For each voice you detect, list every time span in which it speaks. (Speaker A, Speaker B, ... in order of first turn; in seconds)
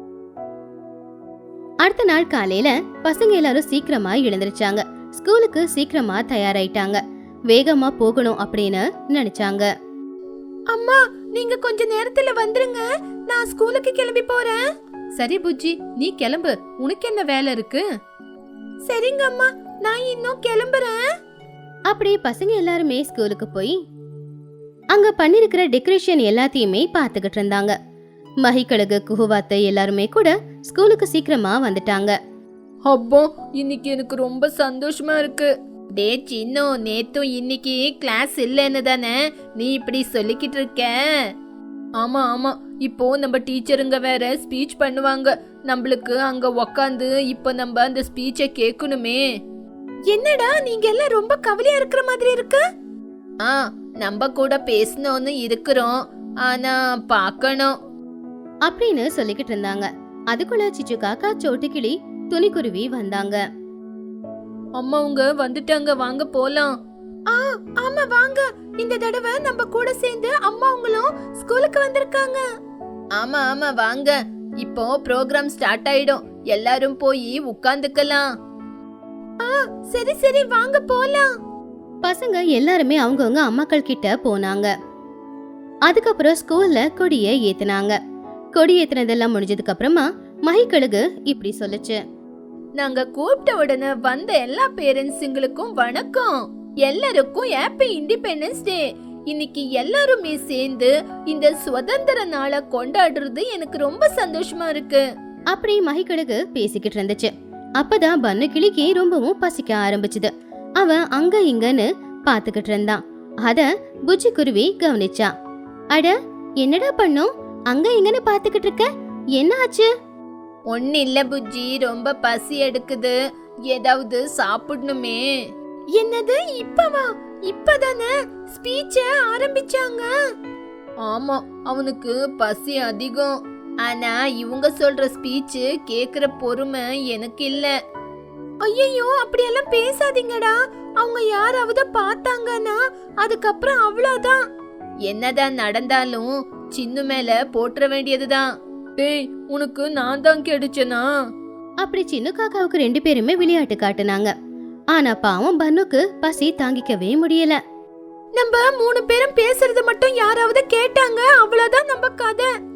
Speaker A: 1.8-9.7, 21.9-23.8, 24.9-27.8, 28.4-32.2, 58.7-63.4, 82.0-84.7, 85.9-88.0, 88.5-92.0, 105.5-115.3, 115.9-119.9, 151.8-154.3, 154.9-157.6
Speaker B: 10.7-14.6, 18.9-21.0, 50.1-52.6, 67.3-72.4, 79.4-81.3, 126.0-130.1, 138.6-144.4, 158.4-162.5
Speaker C: 15.2-17.9, 32.9-41.0, 42.0-49.2, 53.4-57.7, 64.8-66.7, 73.2-78.2, 92.8-105.0, 120.7-123.2, 123.7-125.2, 131.1-133.3, 133.8-137.7, 145.1-148.4, 149.0-151.1